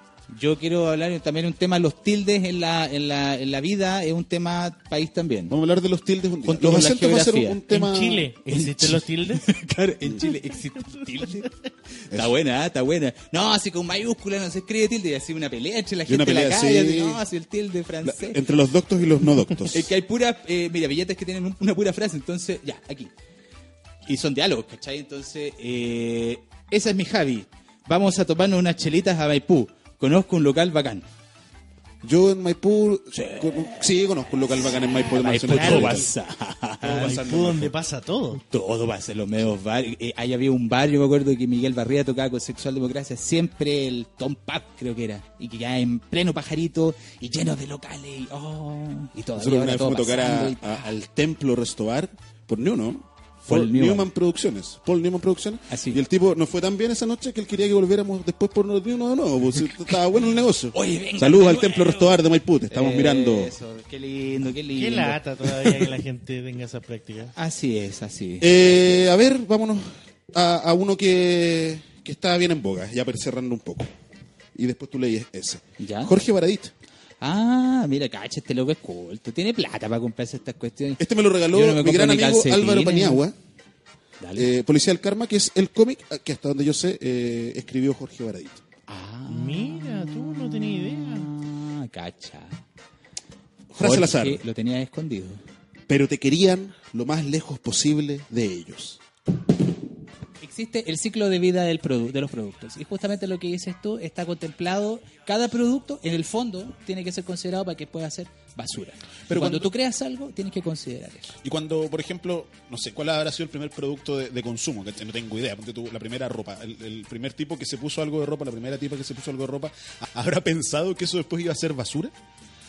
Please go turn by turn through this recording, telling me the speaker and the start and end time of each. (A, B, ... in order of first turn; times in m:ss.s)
0:00.3-0:05.6 A
0:05.5-0:08.3 B
0:06.4-0:07.6 A
0:07.7-0:09.5 C
0:08.5-0:11.5 A
0:12.1-0:18.4 A
0:16.1-0:17.2 B
0:18.0-0:19.9 B
0:19.7-0:23.1 A
0:24.1-0:31.1 A
0:32.0-0:36.1 B
0:33.1-0:33.9 A
0:34.6-0:37.2 A
0:35.4-0:36.1 C
0:36.8-0:37.7 B
0:36.8-0:38.4 C
0:38.3-0:50.9 A
0:49.4-1:03.5 B
0:53.4-0:54.1 A
0:55.7-0:56.0 A
1:00.7-1:05.9 A
1:04.8-1:07.3 C
1:07.3-1:08.5 A
1:08.4-1:13.9 B
1:14.6-1:16.7 B
1:15.8-1:16.1 A
1:17.2-1:23.2 A
1:21.0-1:23.4 B
1:24.2-1:24.5 A
1:24.4-1:28.6 B
1:28.9-1:32.6 A
1:29.3-1:31.3 C
1:33.7-1:34.4 B
1:33.8-1:35.4 A
1:35.9-1:39.0 B
1:40.4-1:51.3 A
1:49.3-1:49.7 B
1:51.4-2:02.1 B